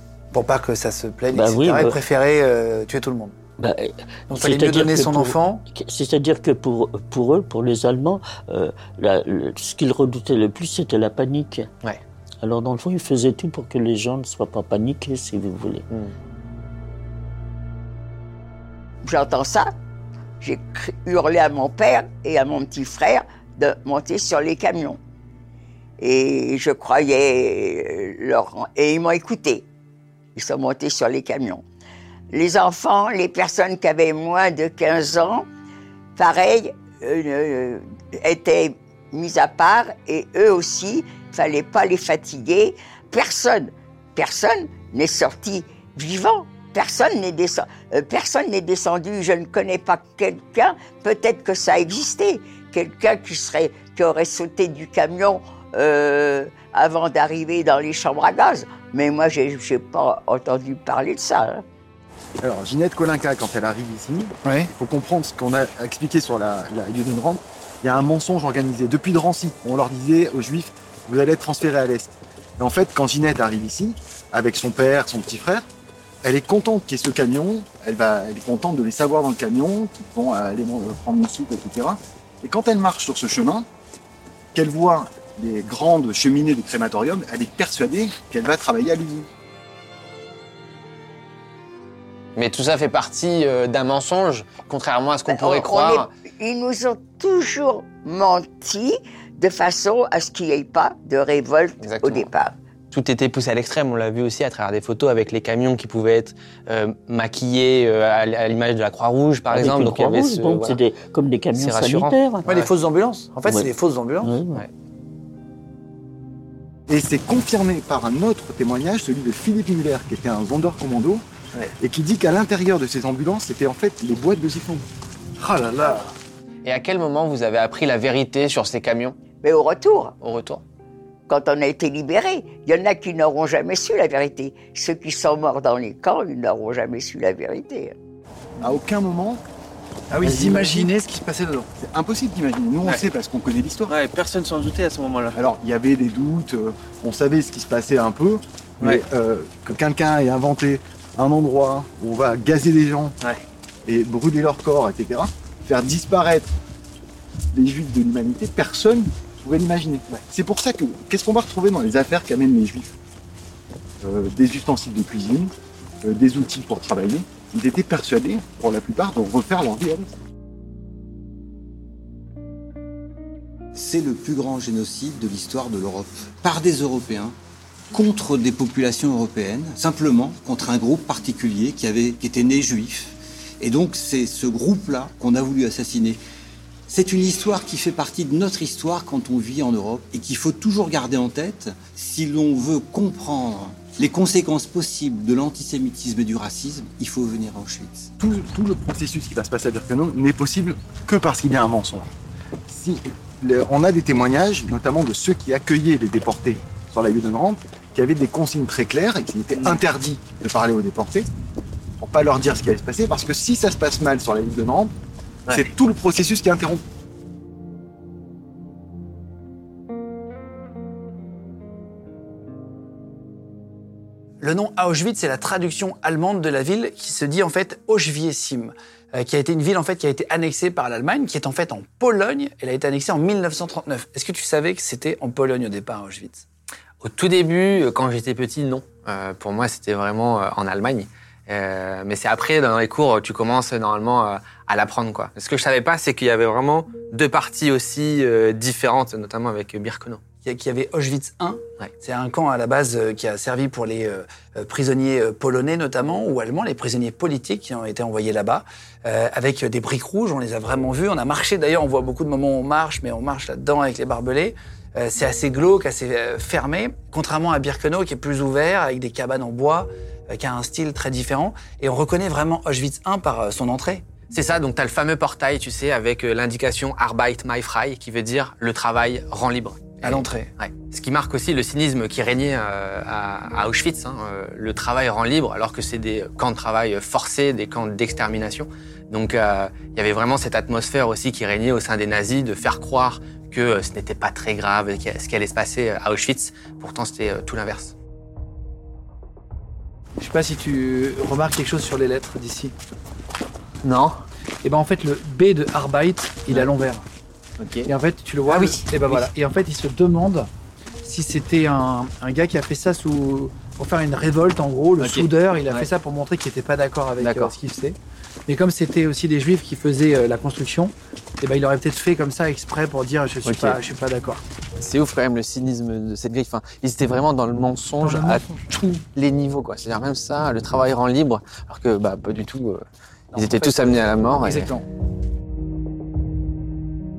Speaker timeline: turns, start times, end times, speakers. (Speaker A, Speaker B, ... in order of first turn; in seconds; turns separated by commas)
Speaker A: 0.3-3.3, Speaker B: 1.3-2.0, Speaker B: 3.6-11.7, Speaker A: 4.3-5.7, Speaker B: 12.4-15.8, Speaker C: 19.0-19.7, Speaker C: 20.4-25.0, Speaker C: 26.0-29.7, Speaker C: 30.4-31.6, Speaker C: 32.3-35.5, Speaker C: 36.1-61.6, Speaker D: 62.4-75.6, Speaker A: 64.4-64.7, Speaker D: 76.2-83.7, Speaker D: 84.5-89.3, Speaker E: 92.3-96.1, Speaker C: 95.3-102.5, Speaker E: 101.8-102.3, Speaker E: 102.9-110.8, Speaker B: 109.5-112.4, Speaker E: 111.5-112.7, Speaker A: 112.5-114.3, Speaker B: 114.2-114.6, Speaker D: 116.9-121.2, Speaker D: 121.8-124.8, Speaker A: 125.4-126.1, Speaker E: 126.6-129.2, Speaker C: 129.4-130.1, Speaker E: 130.2-130.6, Speaker C: 131.3-137.9, Speaker D: 138.6-139.4, Speaker A: 140.1-141.7, Speaker D: 140.2-140.9, Speaker D: 141.8-143.9, Speaker E: 143.9-145.4, Speaker D: 145.3-153.2, Speaker D: 153.8-156.5, Speaker D: 157.5-162.9, Speaker D: 164.0-170.1, Speaker F: 173.7-177.3, Speaker F: 177.9-186.2, Speaker F: 186.9-198.1, Speaker D: 198.2-202.1, Speaker D: 202.7-211.3, Speaker D: 212.0-214.9, Speaker D: 215.5-216.8, Speaker A: 224.4-236.4, Speaker E: 237.0-250.2, Speaker A: 250.4-274.1, Speaker E: 274.3-297.9, Speaker A: 280.0-280.5, Speaker A: 300.2-302.7, Speaker E: 303.8-304.2, Speaker A: 304.6-307.0, Speaker E: 307.6-307.9, Speaker A: 307.9-310.5, Speaker E: 308.5-309.2, Speaker A: 311.0-317.9, Speaker E: 315.0-315.9, Speaker E: 317.2-317.5, Speaker A: 318.5-324.4, Speaker E: 323.4-323.8, Speaker E: 324.8-334.7, Speaker A: 328.0-328.9, Speaker A: 333.3-334.9